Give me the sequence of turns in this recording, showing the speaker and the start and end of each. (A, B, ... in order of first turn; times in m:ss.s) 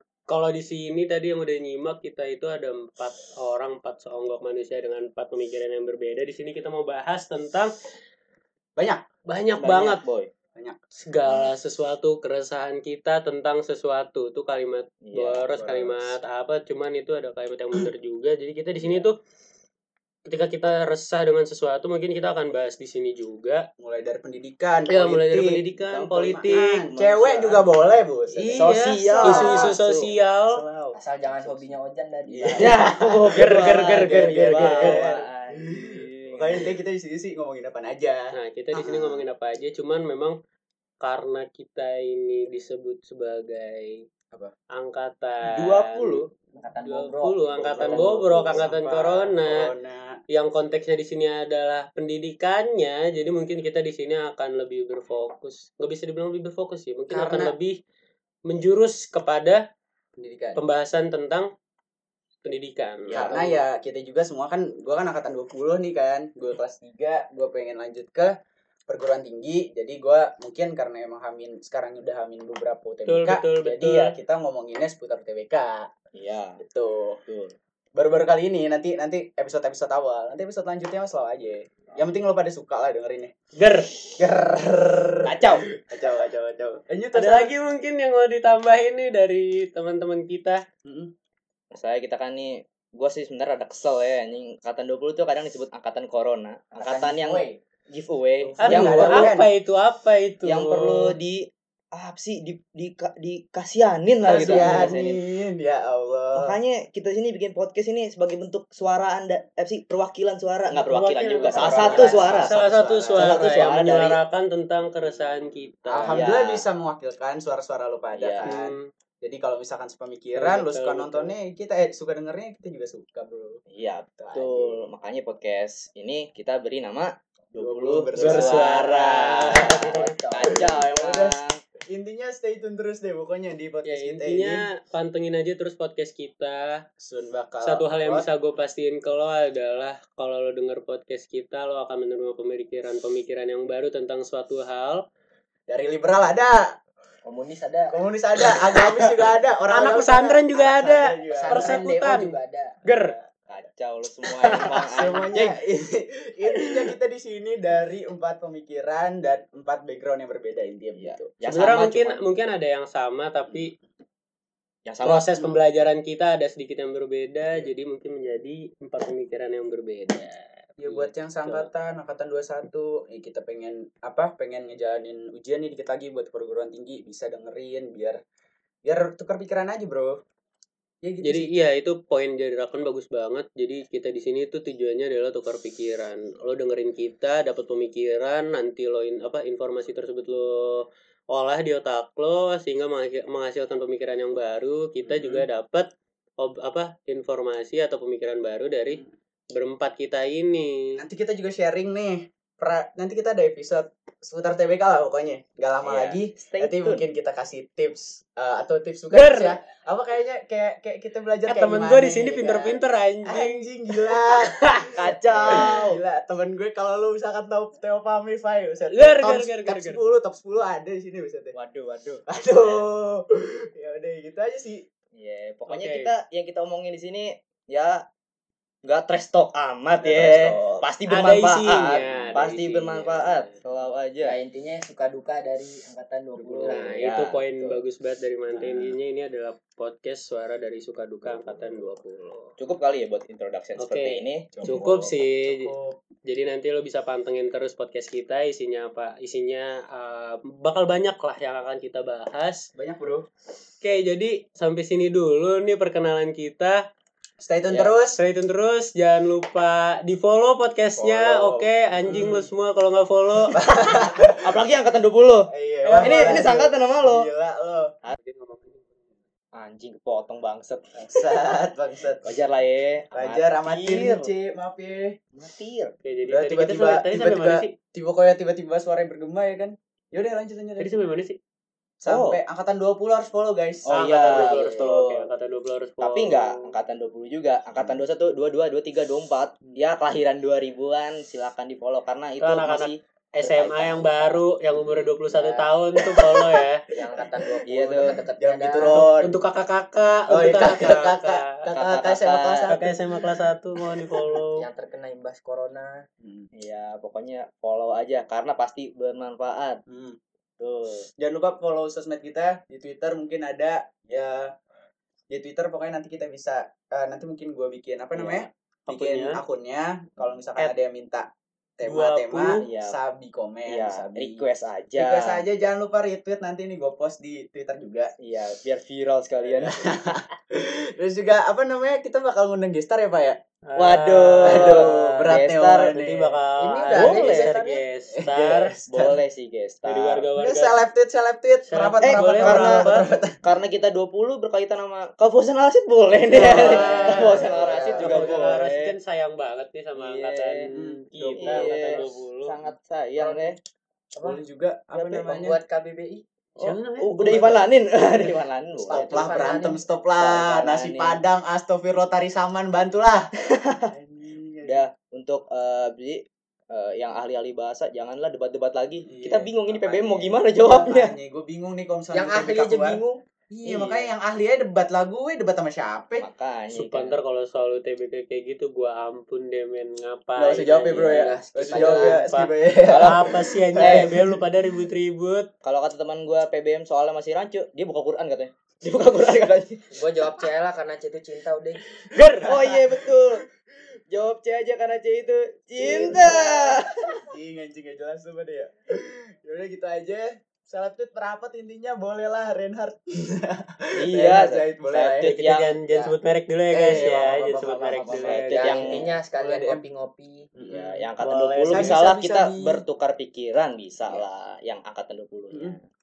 0:00.3-0:07.7 A
0:08.8-0:09.0 B
0:09.3-0:10.0 A
0:09.6-0:10.0 B
0:09.9-0:10.3 C
0:11.0-0:19.2 A
0:15.0-0:15.5 C
0:15.6-0:16.2 B
0:18.8-0:19.1 C
0:20.3-0:23.7 A
0:23.8-0:25.7 B
0:24.9-0:26.9 A
0:25.9-0:27.7 C
0:26.4-0:29.8 B
0:28.3-0:30.6 A
0:28.6-0:30.1 C
0:29.1-0:29.5 D
0:30.5-0:31.7 B
0:30.9-0:32.8 D
0:32.3-0:39.2 B
0:32.6-0:36.6 C
0:33.2-0:35.1 A
0:38.3-0:40.4 A
0:41.0-0:44.0 A
0:44.7-0:46.2 A
0:45.4-0:46.3 C
0:46.5-0:48.4 D
0:46.8-0:49.7 A
0:47.6-0:48.7 C
0:47.8-0:50.2 B
0:50.3-0:57.8 A
0:57.1-0:57.5 B
0:58.5-0:59.6 A
1:00.2-1:00.6 B
1:00.6-1:01.5 A
1:02.4-1:03.4 A
1:03.1-1:03.6 C
1:03.1-1:08.3 B
1:08.9-1:15.9 B
1:13.1-1:14.2 A
1:16.1-1:16.6 C
1:16.6-1:17.2 B
1:17.3-1:17.6 C
1:18.0-1:23.3 B
1:23.6-1:24.0 A
1:24.2-1:27.5 B
1:25.3-1:25.7 C
1:27.1-1:30.6 A
1:30.8-1:31.1 B
1:31.7-1:39.4 C
1:36.8-1:37.5 D
1:38.4-1:39.5 B
1:38.6-1:41.2 A
1:40.4-1:45.2 C
1:44.2-1:46.6 B
1:44.2-1:45.0 A
1:46.4-1:52.6 C
1:50.7-1:56.2 A
1:51.5-1:54.1 B
1:51.6-1:52.5 D
1:53.2-1:54.2 C
1:55.9-2:03.6 B
1:56.1-1:56.7 C
1:58.1-1:58.6 C
1:58.4-1:58.9 A
2:00.3-2:01.4 A
2:03.7-2:11.6 C
2:04.2-2:04.8 B
2:07.6-2:09.0 B
2:08.1-2:10.1 A
2:09.6-2:10.8 D
2:10.4-2:11.4 B
2:11.9-2:14.6 B
2:13.8-2:16.8 A
2:17.0-2:18.3 B
2:17.6-2:25.0 A
2:25.7-2:26.8 B
2:27.2-2:28.0 D
2:27.9-2:31.8 B
2:29.7-2:33.2 A
2:31.3-2:32.8 D
2:33.5-2:35.6 C
2:34.2-2:35.2 A
2:34.9-2:41.4 B
2:41.0-2:42.2 C
2:41.5-2:43.8 A
2:44.8-2:45.3 C
2:45.0-2:51.7 A
2:50.8-2:58.2 B
2:58.8-3:00.2 B
3:01.0-3:01.5 B
3:01.2-3:20.8 A
3:15.1-3:15.5 B
3:21.0-3:41.6 B
3:25.8-3:27.0 C
3:29.1-3:29.6 A
3:31.5-3:35.0 A
3:34.9-3:36.0 C
3:35.5-3:35.8 A
3:38.9-3:40.0 A
3:41.5-3:42.8 C
3:42.3-3:44.8 B
3:45.2-3:48.0 C
3:45.7-3:46.1 A
3:48.8-3:54.4 C
3:50.0-3:50.8 B
3:51.1-3:53.5 A
3:54.2-3:56.9 D
3:56.4-3:57.8 C
3:56.7-4:02.5 A
3:58.5-3:59.0 B
4:02.6-4:05.0 C
4:03.8-4:05.7 A
4:04.5-4:06.0 B
4:06.3-4:12.7 A
4:12.8-4:13.3 B
4:13.8-4:16.8 A
4:17.4-4:18.2 B
4:18.1-4:23.8 A
4:21.0-4:22.5 B
4:23.5-4:24.5 B
4:24.4-4:25.5 C
4:25.5-4:27.9 B
4:25.8-4:26.5 A
4:26.0-4:27.3 C
4:28.2-4:29.0 A
4:29.5-4:31.0 C
4:31.0-4:32.3 B
4:32.2-4:34.3 C
4:33.1-4:35.2 B
4:35.4-4:36.0 C
4:36.0-4:37.7 A
4:36.2-4:41.0 B
4:40.8-4:41.4 A
4:42.0-4:45.0 B
4:42.1-4:42.4 C
4:43.8-4:45.2 C
4:43.9-4:46.8 A
4:46.0-4:54.4 C
4:52.4-4:56.9 A
4:55.3-4:55.7 C
4:56.0-4:56.4 B
4:56.9-4:59.1 D
4:57.2-4:57.5 B
4:57.7-4:58.2 C
4:58.1-4:59.4 B
4:58.9-5:01.7 A
5:00.3-5:03.2 B
5:01.7-5:02.8 C
5:02.7-5:04.7 A
5:03.9-5:04.3 B
5:04.6-5:06.0 D
5:06.2-5:06.5 B
5:06.6-5:09.8 C
5:09.9-5:10.2 B
5:10.6-5:11.1 C
5:11.2-5:14.5 B
5:15.3-5:21.3 B
5:18.2-5:18.5 C
5:18.9-5:19.4 A
5:21.8-5:28.1 B
5:21.8-5:22.6 A
5:22.6-5:23.0 C
5:23.7-5:25.4 C
5:28.2-5:29.8 C
5:29.5-5:33.4 B
5:33.6-5:35.0 A
5:33.8-5:35.9 C
5:34.4-5:36.4 B
5:35.9-5:38.7 A
5:36.6-5:37.8 D
5:37.0-5:37.6 C
5:37.0-5:37.6 B
5:38.1-5:39.2 B
5:38.9-5:40.3 C
5:39.8-5:40.8 A
5:40.4-5:43.4 B
5:41.7-5:43.1 A
5:42.0-5:49.0 C
5:46.3-5:48.5 B
5:46.3-5:52.7 A
5:50.0-5:50.7 C
5:50.7-5:52.0 B
5:51.4-5:53.6 C
5:53.2-5:53.6 D
5:54.2-5:54.4 D
5:54.2-5:55.6 B
5:54.9-5:55.3 C
5:55.0-5:56.2 D
5:56.6-5:59.4 C
5:56.6-5:57.8 A
5:58.8-6:03.3 B
5:58.9-5:59.8 D
6:00.2-6:01.2 C
6:03.4-6:03.9 C
6:03.9-6:04.8 B
6:04.7-6:11.2 C
6:09.0-6:13.0 B
6:12.1-6:14.0 D
6:13.6-6:16.3 B
6:16.2-6:17.2 C
6:16.7-6:25.5 A
6:20.4-6:24.4 B
6:21.0-6:22.2 D
6:22.9-6:23.3 C
6:23.8-6:24.1 C
6:25.6-6:30.0 C
6:29.9-6:31.8 D
6:32.1-6:32.8 A
6:32.2-6:33.2 B
6:32.4-6:33.4 C
6:34.1-6:37.0 C
6:35.8-6:43.5 B
6:44.0-6:45.8 C
6:44.1-6:45.3 B
6:45.3-6:48.7 A
6:46.7-6:49.8 B
6:46.9-6:47.2 C
6:48.0-6:49.1 C
6:48.5-6:50.5 D
6:50.6-6:51.0 B
6:50.7-6:55.8 C
6:51.2-6:52.1 A
6:51.7-6:52.8 B
6:55.5-6:55.8 B